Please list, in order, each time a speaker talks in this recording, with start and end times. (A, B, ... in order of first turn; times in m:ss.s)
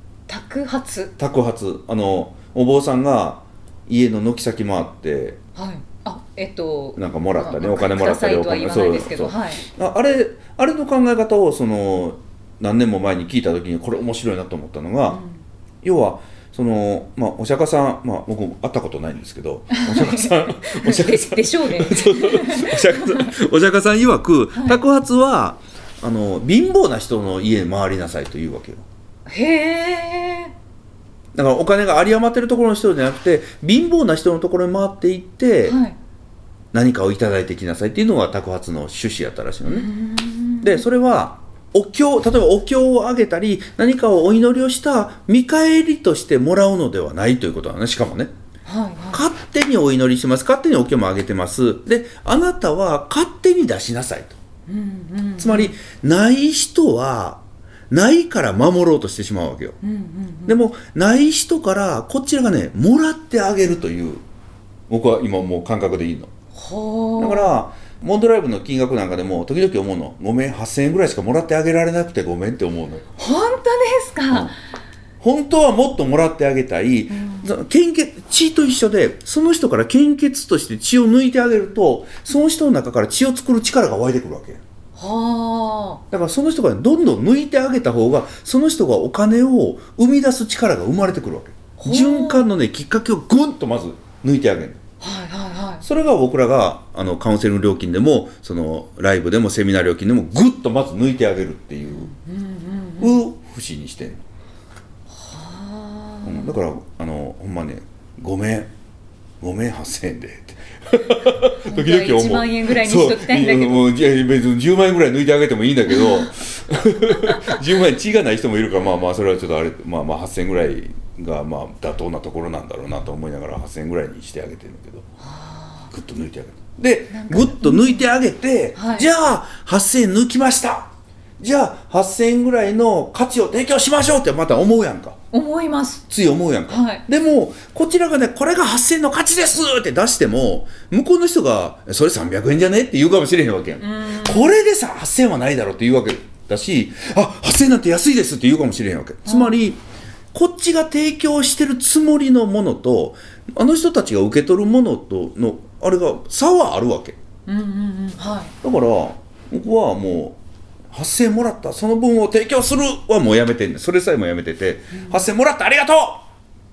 0:00.3-0:01.1 A
0:01.2-0:05.4 B
0:05.6-0:09.6 A
0:07.0-0:15.2 B
0:15.1-0:15.4 A
0:15.8-0:28.8 B
0:19.7-0:23.3 A
0:24.6-0:24.8 A
0:29.3-0:30.5 A
0:31.3-0:35.8 B
0:35.7-0:36.0 A
0:36.7-0:39.9 B
0:39.6-0:40.8 A
0:40.6-0:48.3 B
0:48.7-0:49.3 A
0:49.1-0:54.4 B
0:54.7-0:55.7 A
0:55.4-0:59.8 B
0:59.8-1:00.6 A
1:00.5-1:04.2 B
1:04.9-1:06.3 B
1:06.5-1:07.5 A
1:07.2-1:13.1 B
1:13.2-1:14.5 A
1:15.2-1:24.6 B
1:17.1-1:17.5 A
1:25.0-1:26.0 A
1:26.1-1:34.8 B
1:31.8-1:32.5 A
1:35.0-1:35.9 A
1:35.8-1:42.1 B
1:41.9-1:43.2 A
1:43.0-1:44.2 B
1:45.2-1:46.6 A
1:46.2-1:48.7 B
1:49.4-2:05.1 B
1:51.5-1:53.9 A
1:57.2-1:57.5 A
2:05.2-2:05.9 A
2:05.9-2:15.2 B
2:07.1-2:08.1 A
2:08.8-2:09.1 A
2:15.3-2:16.0 A
2:16.1-2:29.8 B
2:16.7-2:17.0 A
2:23.8-2:24.6 A
2:29.2-2:29.5 A
2:30.3-2:37.2 B
2:37.5-2:38.5 A
2:38.6-2:40.4 B
2:40.9-2:46.2 B
2:44.9-2:45.2 A